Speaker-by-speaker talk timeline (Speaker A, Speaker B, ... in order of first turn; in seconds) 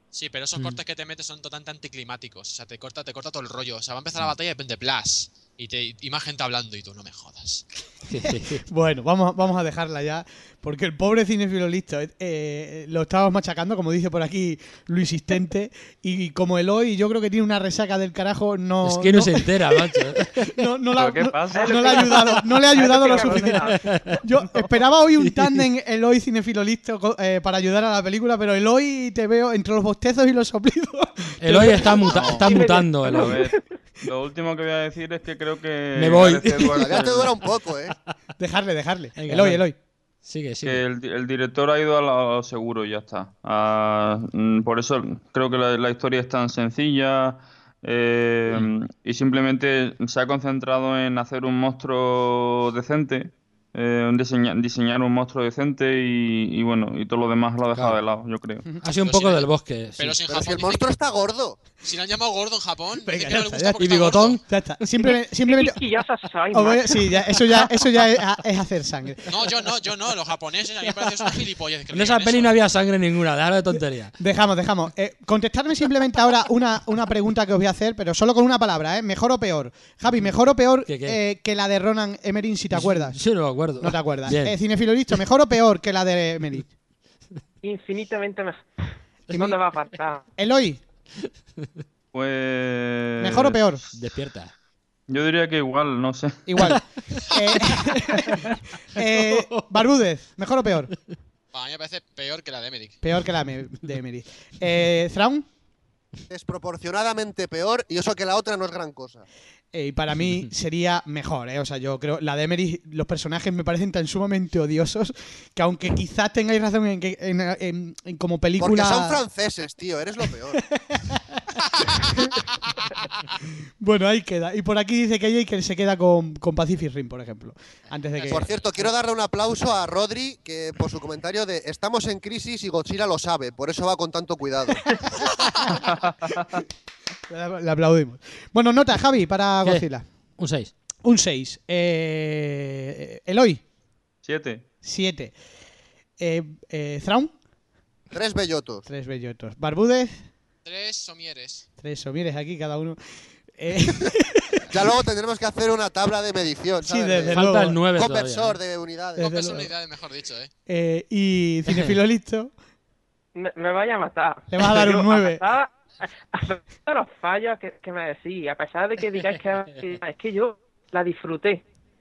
Speaker A: 0.1-7.6, 59.0-60.9, 61.8-64.4, 69.3-72.5, 101.5-103.0, 128.2-128.7, 150.7-151.7, 159.2-160.5
Speaker B: 8.1-8.7, 18.8-20.7, 23.7-24.2, 25.2-25.6, 31.4-33.4, 36.0-37.0, 39.2-39.6, 40.2-40.8, 57.7-58.0, 58.8-60.2, 63.8-64.4, 71.9-74.2, 80.9-81.2, 82.7-84.6, 91.2-91.7, 93.9-94.5, 96.6-98.3, 99.3-99.6, 140.4-140.7, 157.3-158.6
Speaker C: 8.5-32.2, 38.4-39.8, 63.0-65.8, 66.5-69.3, 74.2-83.2, 83.8-86.7, 90.4-90.8, 93.2-93.8, 96.5-100.9, 103.0-105.5, 109.7-119.2, 120.5-122.4, 123.8-128.5, 134.9-135.8, 137.3-140.1, 141.0-143.6, 144.8-145.3, 146.2-147.3, 148.9-150.1, 151.8-154.9, 156.8-157.8, 159.2-159.7, 160.7-162.5, 164.5-165.4
Speaker D: 21.0-22.2, 22.8-23.4, 32.1-32.5, 33.0-37.4, 40.6-58.7, 92.1-93.7, 95.1-96.5, 135.8-136.6, 144.2-144.7
Speaker E: 21.5-23.9, 31.8-33.6, 65.4-67.3, 87.6-90.2, 163.3-171.6
Speaker F: 36.7-38.0, 60.3-61.6, 106.3-109.3, 118.6-120.6, 128.3-135.1, 148.1-148.8, 154.7-159.3